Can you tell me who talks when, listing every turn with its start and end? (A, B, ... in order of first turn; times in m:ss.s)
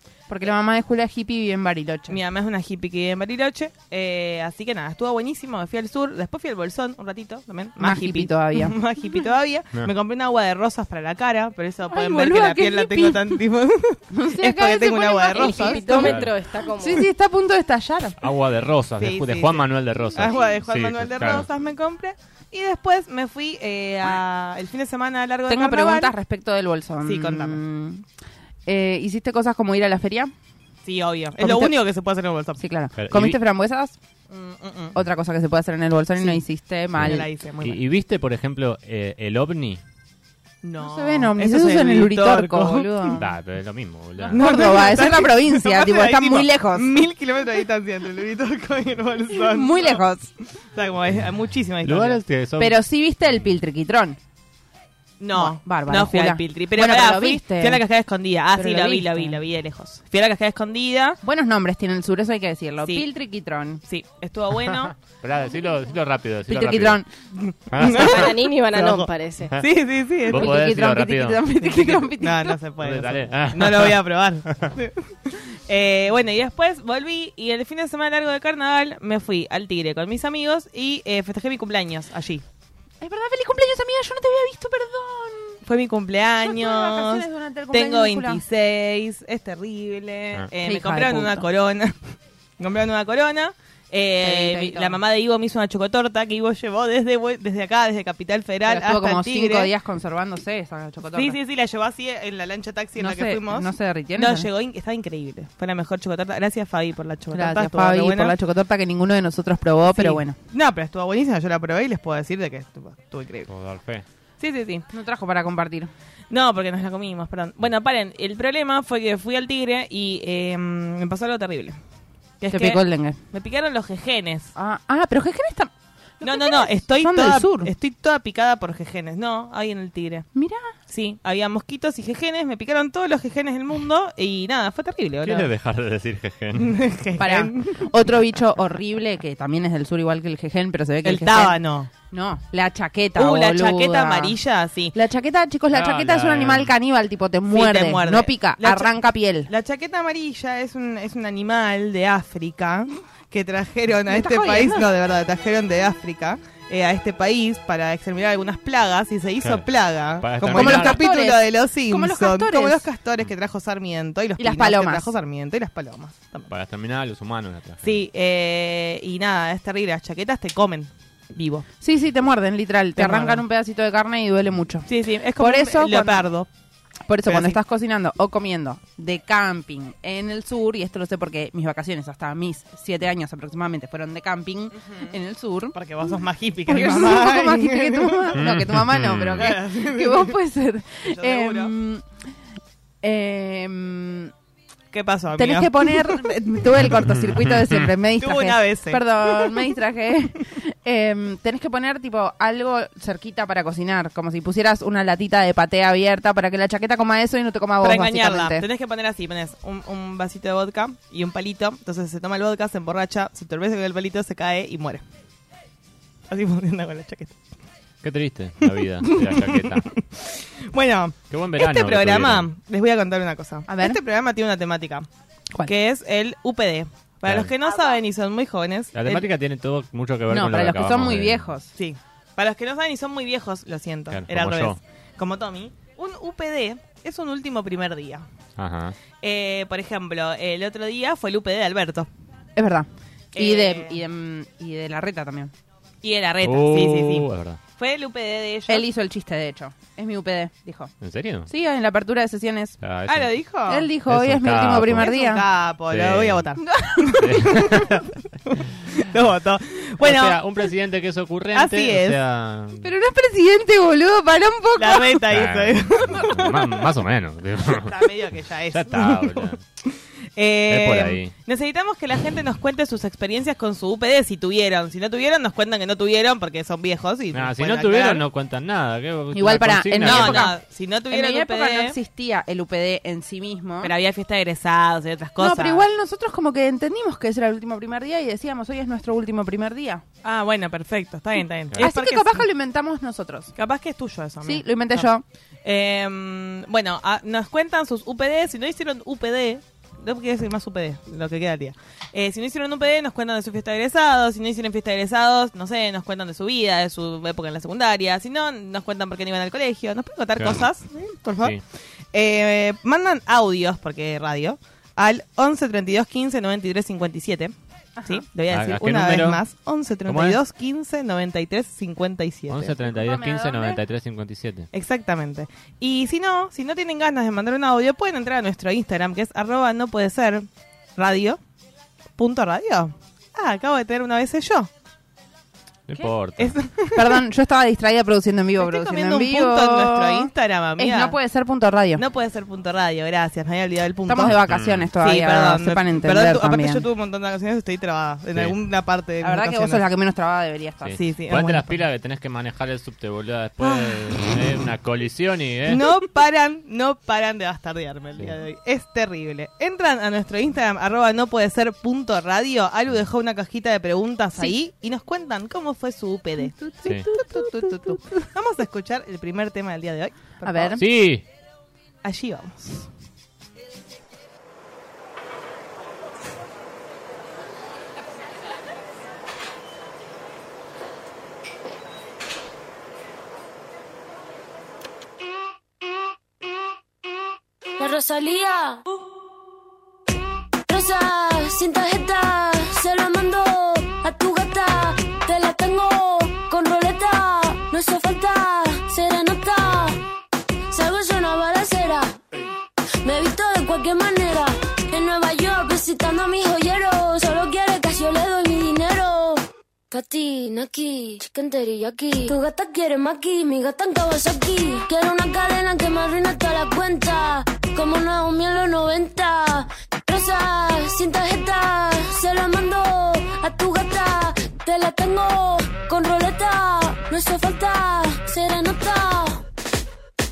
0:00.3-0:02.2 A
0:02.1-0:16.1 B
0:07.8-0:08.8 A
0:11.9-0:13.4 A
0:14.1-0:16.2 A
0:15.3-0:17.1 C
0:16.0-0:16.3 D
0:16.8-0:18.2 A
0:18.2-0:21.5 D
0:19.0-0:26.1 B
0:25.5-0:28.0 A
0:27.0-0:27.6 B
0:28.6-0:30.3 A
0:30.8-0:32.6 B
0:31.4-0:31.8 A
0:32.6-0:34.0 A
0:32.9-0:33.4 D
0:34.3-0:34.9 B
0:34.9-0:37.3 A
0:36.2-0:36.4 B
0:37.0-0:39.8 D
0:37.0-0:37.8 B
0:40.6-0:43.2 B
0:40.8-0:43.2 A
0:43.2-0:44.4 D
0:44.2-0:50.0 B
0:44.3-0:47.0 A
0:49.3-0:50.3 A
0:50.7-0:52.2 B
0:51.8-0:52.8 D
0:52.6-0:54.2 A
0:55.2-1:01.2 B
0:55.3-0:57.8 A
0:58.5-0:59.4 A
1:01.2-1:03.8 A
1:03.8-1:04.9 B
1:04.7-1:07.0 D
1:06.5-1:07.0 A
1:07.4-1:10.7 B
1:07.7-1:08.3 D
1:07.8-1:09.6 C
1:10.2-1:11.5 D
1:10.3-1:12.6 A
1:11.6-1:22.4 B
1:12.8-1:14.7 D
1:23.0-1:25.6 A
1:25.6-1:31.9 B
1:26.4-1:28.4 A
1:30.6-1:31.5 A
1:32.6-1:39.7 B
1:34.2-1:35.0 A
1:38.6-1:41.4 A
1:41.1-1:48.3 B
1:43.0-1:44.5 A
1:47.3-1:50.3 A
1:49.9-1:53.5 B
1:53.5-1:54.0 D
1:54.4-1:54.8 B
1:54.9-1:55.9 A
1:56.3-2:01.8 B
2:02.4-2:02.8 B
2:02.5-2:03.2 A
2:03.3-2:04.5 B
2:04.5-2:07.7 A
2:06.2-2:10.3 B
2:10.3-2:10.7 A
2:10.9-2:15.5 B
2:15.2-2:16.8 D
2:16.6-2:17.8 B
2:17.2-2:24.4 A
2:21.0-2:21.9 B
2:23.2-2:24.9 B
2:24.9-2:29.5 A
2:25.7-2:26.7 D
2:27.5-2:29.0 B
2:29.5-2:46.5 B
2:34.1-2:34.9 A
2:39.4-2:39.6 D
2:40.2-2:41.0 D
2:40.5-2:42.8 A
2:44.4-2:45.1 A
2:46.5-2:48.0 D
2:47.8-2:51.6 B
2:51.8-2:56.3 A
2:53.0-2:53.4 B
2:54.9-2:56.5 B
2:57.1-3:05.8 A
2:57.2-2:57.6 B
3:05.7-3:08.5 B
3:06.6-3:12.0 A
3:08.3-3:09.5 D
3:09.4-3:10.4 B
3:11.0-3:11.7 B
3:13.0-3:14.3 A
3:14.9-3:16.2 B
3:15.3-3:28.6 A
3:17.2-3:17.8 D
3:18.2-3:19.6 B
3:27.8-3:35.0 B
3:36.3-3:37.4 B
3:38.0-3:39.9 D
3:38.7-3:45.1 B
3:41.3-3:42.5 D
3:43.7-3:44.0 A
3:45.6-3:49.3 B
3:47.2-3:47.5 D
3:48.9-3:51.5 D
3:50.3-3:51.7 A
3:51.7-3:58.2 B
3:54.1-3:54.8 D
3:58.6-3:59.0 D
3:59.2-4:02.1 B
4:02.6-4:05.5 A
4:03.3-4:04.0 B
4:06.0-4:08.8 B
4:06.4-4:07.6 D
4:08.7-4:10.9 A
4:11.0-4:11.5 D
4:11.5-4:12.8 A
4:12.8-4:13.4 D
4:13.1-4:13.9 B
4:13.7-4:15.4 A
4:14.0-4:15.1 D
4:15.0-4:20.4 B
4:15.9-4:16.5 D
4:16.6-4:17.5 A
4:17.2-4:18.0 D
4:20.0-4:22.9 D
4:21.5-4:22.2 B
4:22.8-4:25.2 A
4:24.8-4:26.8 B
4:25.3-4:28.0 D
4:27.7-4:38.2 B
4:28.7-4:29.6 D
4:30.7-4:31.3 D
4:37.3-4:40.5 D
4:39.3-4:43.9 A
4:40.0-4:42.0 B
4:43.8-4:45.8 B
4:45.4-4:50.0 A
4:50.2-4:52.4 B
4:51.8-4:53.5 A
4:53.6-4:55.1 B
4:54.4-4:55.2 A
4:55.6-5:11.6 B
5:10.4-5:10.6 D
5:12.1-5:17.5 B
5:18.0-5:18.2 A
5:18.0-5:22.7 B
5:18.5-5:19.4 D
5:20.0-5:20.4 D
5:22.5-5:24.7 D
5:22.8-5:23.8 A
5:24.7-5:31.4 B
5:32.2-5:34.7 B
5:35.9-5:36.6 D
5:36.4-5:37.2 B
5:36.9-5:42.0 A
5:38.6-5:41.2 B
5:42.0-5:44.4 B
5:44.0-5:46.8 A
5:44.3-5:44.9 D
5:45.0-5:49.8 B
5:49.2-5:51.0 A
5:50.8-5:55.9 D
5:51.0-5:51.8 B
5:53.6-5:54.3 B
5:55.6-6:10.8 B
6:06.4-6:08.0 A
6:06.8-6:07.1 D
6:10.4-6:10.8 A
6:10.8-6:11.2 D
6:12.0-6:12.9 B
6:27.8-6:28.8 E
6:30.7-6:40.0 E
6:40.7-6:42.2 E
6:43.0-7:09.4 E